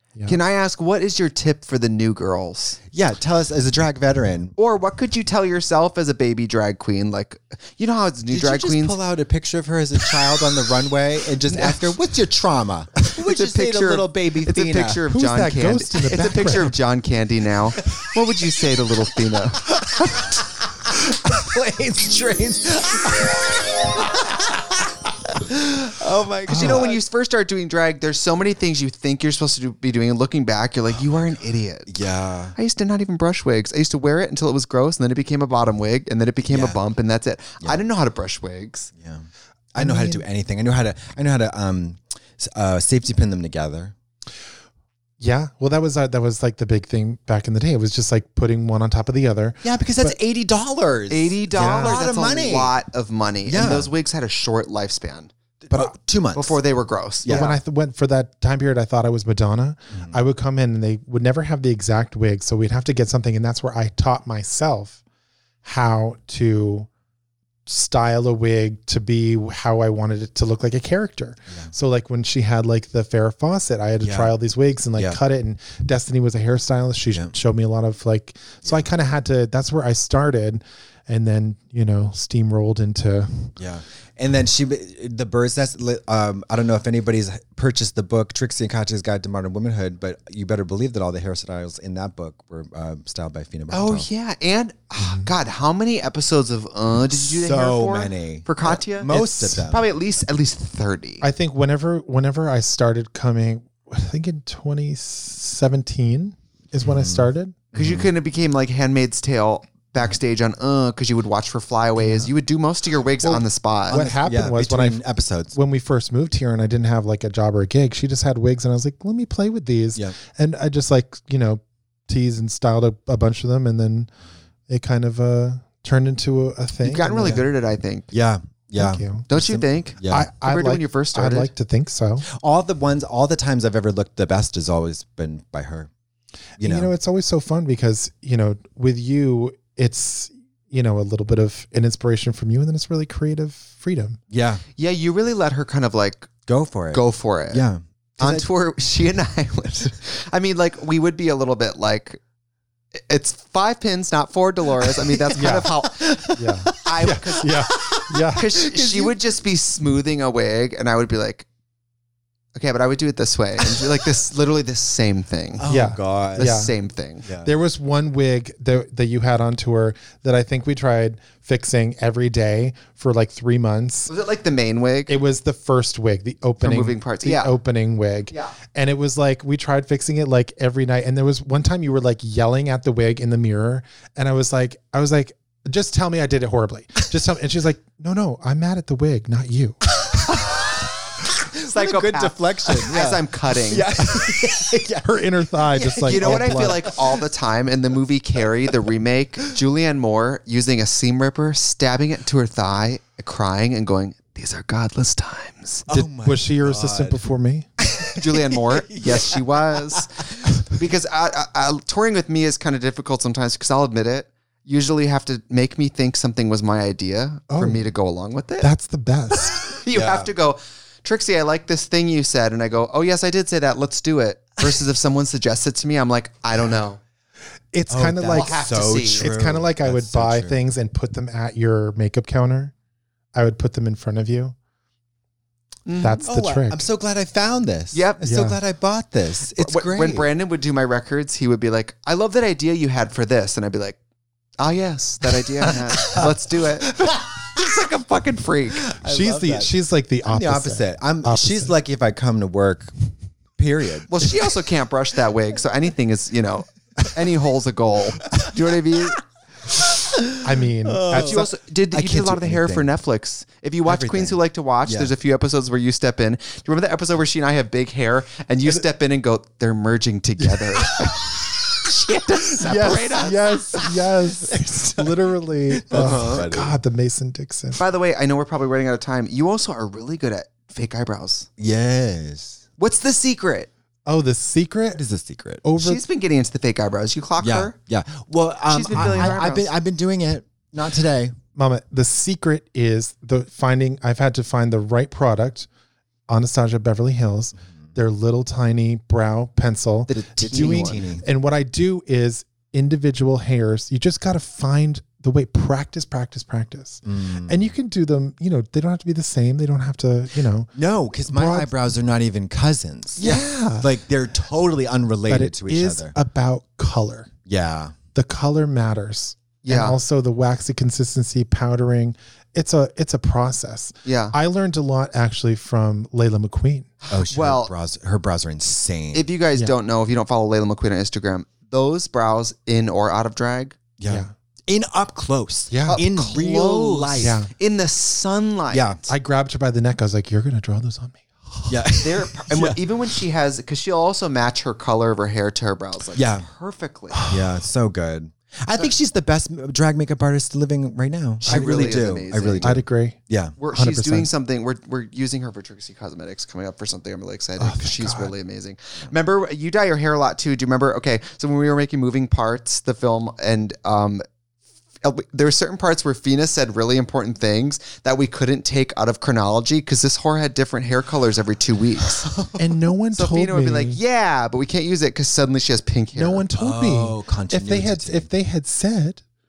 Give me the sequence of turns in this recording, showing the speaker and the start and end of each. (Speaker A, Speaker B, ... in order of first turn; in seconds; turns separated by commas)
Speaker A: 0.3-2.8, Speaker B: 2.9-4.5, Speaker A: 4.6-9.0, Speaker B: 8.3-15.0, Speaker A: 11.5-11.8, Speaker A: 13.1-19.7, Speaker C: 15.1-16.7, Speaker B: 19.6-27.0, Speaker C: 26.5-26.9, Speaker A: 26.5-31.9, Speaker B: 31.9-32.5, Speaker A: 32.5-38.9, Speaker B: 36.4-36.8, Speaker B: 39.0-43.9, Speaker C: 39.8-40.2, Speaker C: 45.2-50.1, Speaker B: 49.6-52.7, Speaker A: 51.1-55.3, Speaker C: 51.6-51.9, Speaker B: 53.5-53.9, Speaker B: 55.7-56.6, Speaker A: 56.3-57.6, Speaker B: 57.2-57.5, Speaker C: 57.3-65.0, Speaker B: 59.9-60.2, Speaker C: 65.6-66.9, Speaker C: 67.7-83.5, Speaker B: 74.0-74.3, Speaker B: 83.6-94.1, Speaker A: 93.7-101.2, Speaker C: 95.0-95.3, Speaker B: 97.2-99.8, Speaker C: 99.1-99.6, Speaker C: 101.2-107.5, Speaker B: 106.8-108.1, Speaker A: 107.7-114.0, Speaker C: 112.0-112.3, Speaker C: 113.2-124.1, Speaker B: 113.9-115.5, Speaker C: 124.7-127.4, Speaker A: 126.8-128.1, Speaker B: 128.1-130.3, Speaker C: 128.8-129.3, Speaker A: 129.3-131.5, Speaker C: 130.1-132.2, Speaker B: 132.2-135.9, Speaker B: 136.6-136.9, Speaker C: 136.6-144.2, Speaker B: 144.3-144.6, Speaker A: 144.8-146.3, Speaker B: 146.5-148.4, Speaker A: 146.9-147.7, Speaker A: 148.2-152.2, Speaker A: 152.9-157.8, Speaker B: 154.8-159.1, Speaker C: 155.3-155.7, Speaker C: 156.3-158.5, Speaker A: 158.3-161.4, Speaker A: 162.5-165.7, Speaker B: 165.6-166.6, Speaker C: 165.7-166.7, Speaker A: 166.4-167.2, Speaker B: 167.2-167.5, Speaker C: 167.4-174.1, Speaker A: 174.1-175.1, Speaker C: 175.1-189.8, Speaker A: 176.6-177.5, Speaker B: 190.0-197.2, Speaker A: 191.6-193.9, Speaker C: 195.0-196.8, Speaker A: 196.0-205.8, Speaker B: 205.8-207.2, Speaker C: 205.9-207.7, Speaker B: 207.8-210.0, Speaker A: 208.1-218.7, Speaker C: 217.5-217.8, Speaker C: 218.6-219.6, Speaker A: 219.3-227.0, Speaker B: 219.9-220.3, Speaker C: 227.7-232.7, Speaker B: 227.9-230.6, Speaker A: 228.3-229.3, Speaker C: 233.3-234.6, Speaker A: 235.8-236.2, Speaker C: 236.0-236.9, Speaker B: 236.2-240.3, Speaker A: 237.9-238.2, Speaker C: 238.2-238.6, Speaker A: 239.5-244.0, Speaker A: 244.6-248.9, Speaker B: 246.0-246.3, Speaker B: 246.8-247.6, Speaker B: 248.8-249.7, Speaker C: 249.0-251.7, Speaker B: 250.2-252.9, Speaker B: 253.6-254.3, Speaker A: 254.1-259.2, Speaker B: 259.7-262.9, Speaker C: 260.4-261.5, Speaker A: 261.1-273.9, Speaker B: 263.8-265.1, Speaker C: 272.6-277.8, Speaker B: 275.7-276.8, Speaker A: 275.9-276.4, Speaker A: 277.8-281.5, Speaker B: 281.6-282.6, Speaker A: 282.8-283.7, Speaker C: 284.1-285.0, Speaker B: 285.0-285.6, Speaker C: 285.6-286.0, Speaker A: 285.8-287.7, Speaker B: 287.4-291.3, Speaker A: 288.7-289.7, Speaker C: 289.0-289.3, Speaker C: 291.6-295.7, Speaker C: 296.3-310.7, Speaker A: 300.1-301.1, Speaker B: 300.4-301.2, Speaker B: 307.0-307.7, Speaker B: 310.7-316.1, Speaker C: 311.2-311.7, Speaker C: 313.2-313.9, Speaker C: 315.3-317.3, Speaker B: 317.4-317.9, Speaker C: 318.1-326.9, Speaker A: 319.6-320.0, Speaker A: 324.0-324.3, Speaker A: 327.1-327.7, Speaker B: 327.1-329.3, Speaker A: 329.1-333.8, Speaker B: 334.0-337.4, Speaker C: 335.7-336.0, Speaker A: 335.9-339.0, Speaker C: 337.2-337.5, Speaker B: 338.7-339.0, Speaker C: 339.1-341.9, Speaker B: 341.7-342.8, Speaker A: 342.0-347.3, Speaker B: 346.1-346.5, Speaker B: 347.3-353.6, Speaker C: 351.4-352.0, Speaker A: 351.4-352.8, Speaker C: 352.6-353.2, Speaker A: 353.6-364.2, Speaker C: 353.7-354.3, Speaker C: 357.6-358.3, Speaker A: 365.0-372.3, Speaker C: 372.5-374.0, Speaker A: 373.1-376.4, Speaker C: 376.1-379.2, Speaker B: 376.6-378.3